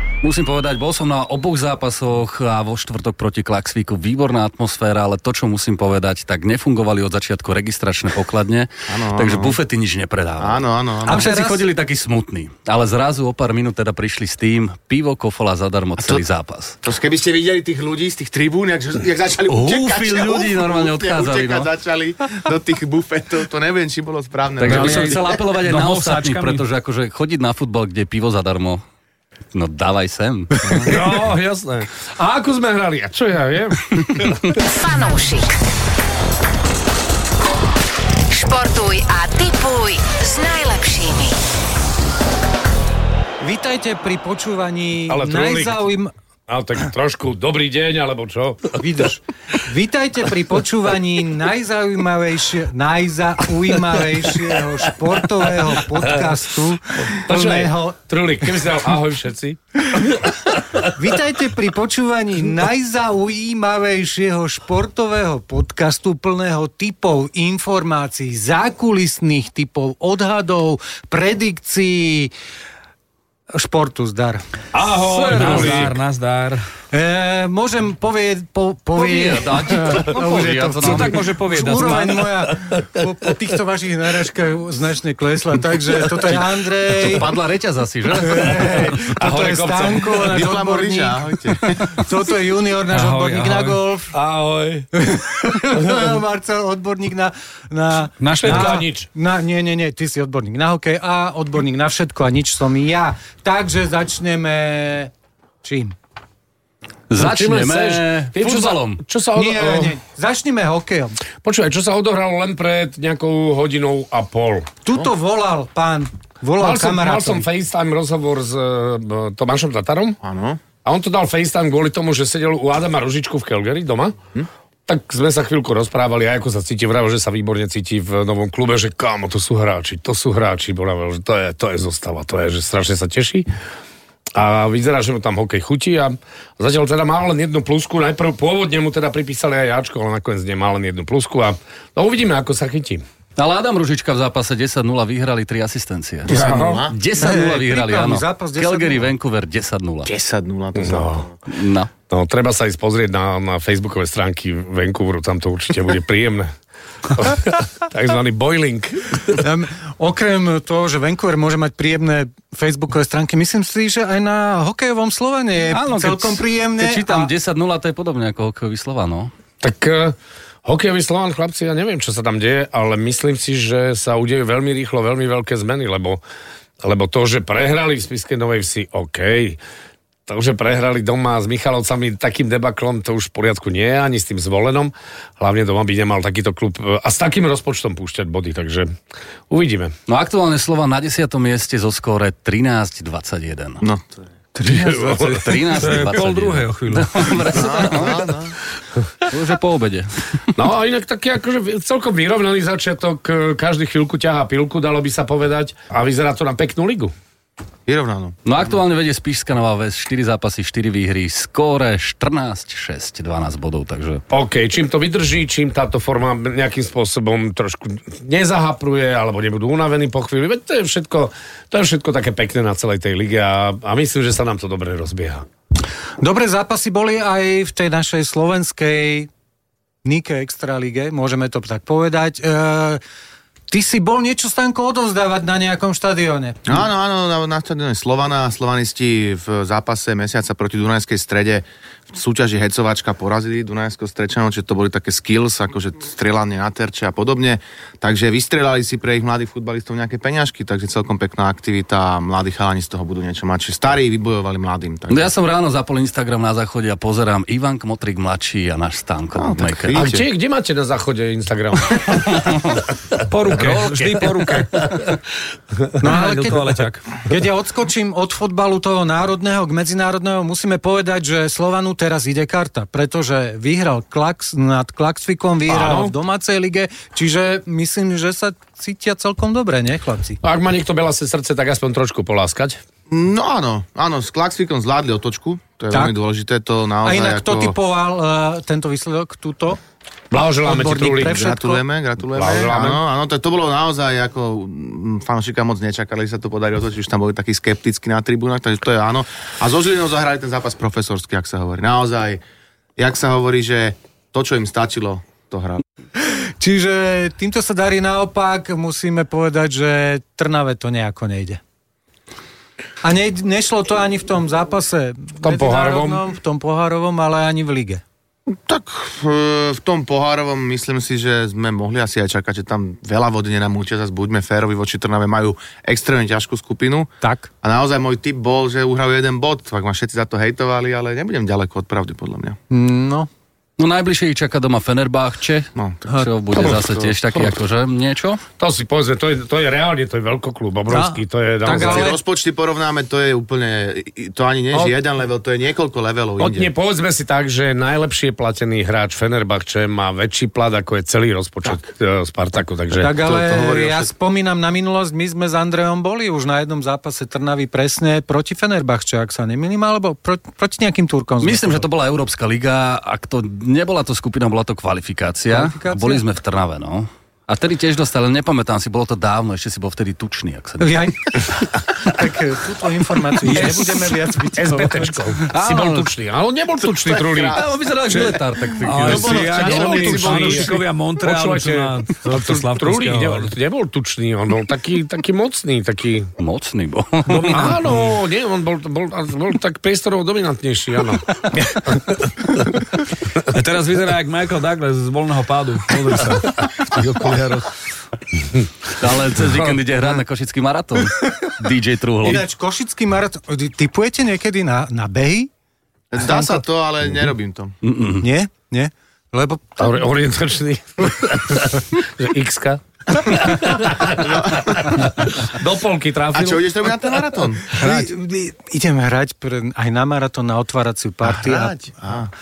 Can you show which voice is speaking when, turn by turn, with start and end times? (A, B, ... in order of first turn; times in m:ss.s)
0:00.2-0:16.8 A
0:08.9-0:09.6 B
0:10.4-0:11.3 B
0:11.1-0:11.6 C
0:16.0-0:16.2 B
0:16.8-0:25.4 B
0:19.5-0:21.7 A
0:24.6-0:28.8 A
0:24.7-0:26.6 D
0:29.5-0:30.8 A
0:30.6-0:31.0 B
0:30.8-0:34.5 E
0:34.6-0:35.5 F
0:38.3-0:41.4 F
0:43.4-0:46.1 C
0:45.1-0:45.9 E
0:46.5-0:49.0 E
0:48.8-0:58.0 C
0:56.0-0:56.4 E
0:56.9-1:00.9 E
1:00.9-1:12.3 C
1:13.5-1:14.4 C
1:14.7-1:15.9 E
1:15.0-1:16.6 D
1:16.9-1:27.3 C
1:19.0-1:21.2 A
1:20.8-1:22.3 D
1:27.0-1:28.7 A
1:28.2-1:34.1 C
1:28.5-1:30.3 E
1:30.2-1:31.9 B
1:32.9-1:33.8 D
1:34.1-1:34.9 E
1:34.9-1:45.1 C
1:35.7-1:36.1 E
1:38.2-1:38.8 D
1:38.3-1:39.1 E
1:45.6-1:46.0 C
1:47.1-1:49.0 A
1:47.2-1:50.0 E
1:49.3-1:51.2 C
1:51.4-1:54.7 E
1:54.8-1:57.4 C
1:56.6-2:00.2 E
2:00.2-2:00.6 B
2:00.8-2:04.2 E
2:04.9-2:13.5 E
2:14.3-2:23.0 E
2:23.4-2:26.3 A
2:26.2-2:27.0 B
2:26.3-2:26.8 E
2:26.9-2:30.1 A
2:27.2-2:29.1 C
2:30.1-2:31.4 B
2:30.8-2:31.3 E
2:31.5-2:31.9 A
2:32.1-2:36.5 E
2:37.1-2:39.4 E
2:39.4-2:47.3 C
2:45.7-2:49.3 A
2:49.6-2:56.2 E
2:56.8-2:59.6 E
3:00.3-3:09.0 E
3:09.5-3:09.9 E
3:10.1-3:13.8 A
3:13.8-3:14.9 B
3:14.6-3:15.6 E
3:14.7-3:18.3 A
3:15.7-3:17.4 D
3:17.5-3:18.6 B
3:19.3-3:20.5 A
3:20.6-3:27.1 E
3:27.9-3:28.4 B
3:28.4-3:34.2 A
3:34.3-3:45.5 E
3:46.2-3:49.3 C
3:50.0-3:53.0 C
3:53.7-3:56.8 C
3:56.7-4:15.3 B
4:15.1-4:20.1 A
4:19.4-4:20.2 B
4:19.9-4:22.5 E
4:23.2-4:24.9 D
4:23.5-4:24.9 E
4:26.0-4:26.7 C
4:26.0-4:27.0 D
4:27.2-4:40.4 C
4:35.7-4:36.1 E
4:40.4-4:42.8 E
4:43.1-4:47.8 B
4:47.0-4:49.8 C
4:50.3-4:51.4 E
4:50.6-4:51.8 C
4:51.2-5:02.4 B
4:52.4-4:53.0 E
5:03.0-5:05.8 B
5:06.2-5:11.6 C
5:13.0-5:18.0 C
5:15.4-5:16.2 E
5:18.5-5:27.1 B
5:27.2-5:27.5 C
5:27.6-5:32.6 B
5:32.7-5:33.3 C
5:33.8-5:38.4 A
5:35.8-5:37.0 B
5:36.5-5:37.5 E
5:38.6-5:42.1 E
5:40.9-5:42.2 C
5:41.7-5:46.7 B
5:46.4-5:53.2 E
5:53.0-6:01.9 C
5:53.2-5:54.1 B
6:01.4-6:11.1 A
6:05.5-6:06.2 C
6:10.8-6:15.2 C
6:13.4-6:13.9 D
6:14.6-6:17.6 E
6:15.5-6:16.1 A
6:16.9-6:18.4 B
6:17.6-6:20.2 A
6:18.1-6:23.5 D
6:19.0-6:20.8 B
6:20.2-6:26.3 E
6:26.4-6:27.7 A
6:27.3-6:28.2 D
6:27.4-6:32.7 E
6:33.5-6:37.7 D
6:39.0-6:42.4 A
6:42.2-6:45.5 C
6:46.1-6:47.8 B
6:46.2-6:46.6 C
6:47.8-6:48.2 A
6:48.2-6:50.0 C
6:49.8-6:57.1 E
6:54.0-6:55.2 B
6:56.3-6:57.8 B
6:57.7-7:01.8 C
6:57.8-6:58.1 D
7:01.2-7:02.3 B